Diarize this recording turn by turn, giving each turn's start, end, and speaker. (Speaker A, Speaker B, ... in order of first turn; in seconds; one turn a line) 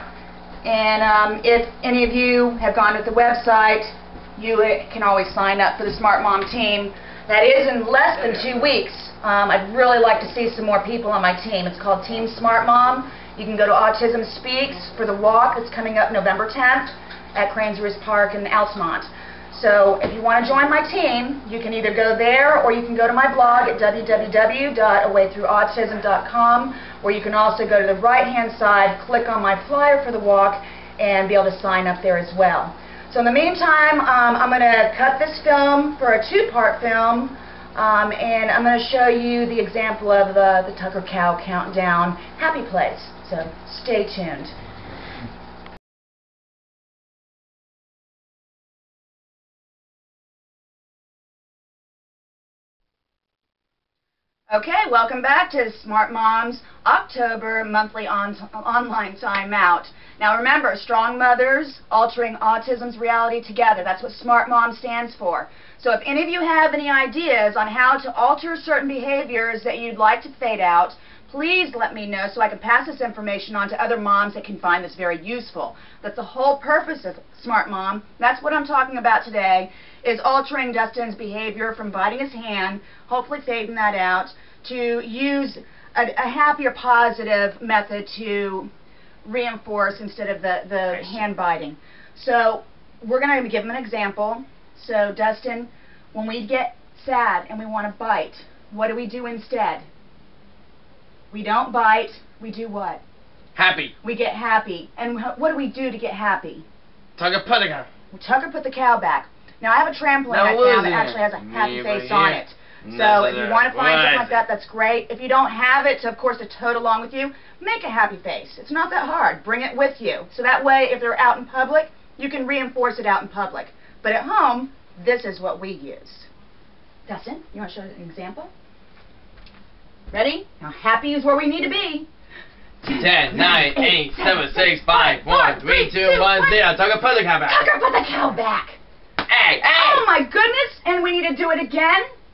Speaker A: 0.6-44.5
Speaker A: 54.5-88.7
Speaker A: 89.2-99.9
Speaker A: 101.3-103.0
Speaker B: 103.5-103.9
Speaker A: 104.0-106.7
Speaker B: 107.2-107.9
Speaker A: 108.1-126.3
Speaker B: 110.3-114.4
Speaker A: 127.1-128.5
Speaker A: 130.1-132.1
Speaker A: 132.8-136.6
Speaker B: 132.9-137.7
Speaker A: 137.5-138.8
Speaker B: 139.3-140.1
Speaker A: 139.6-142.1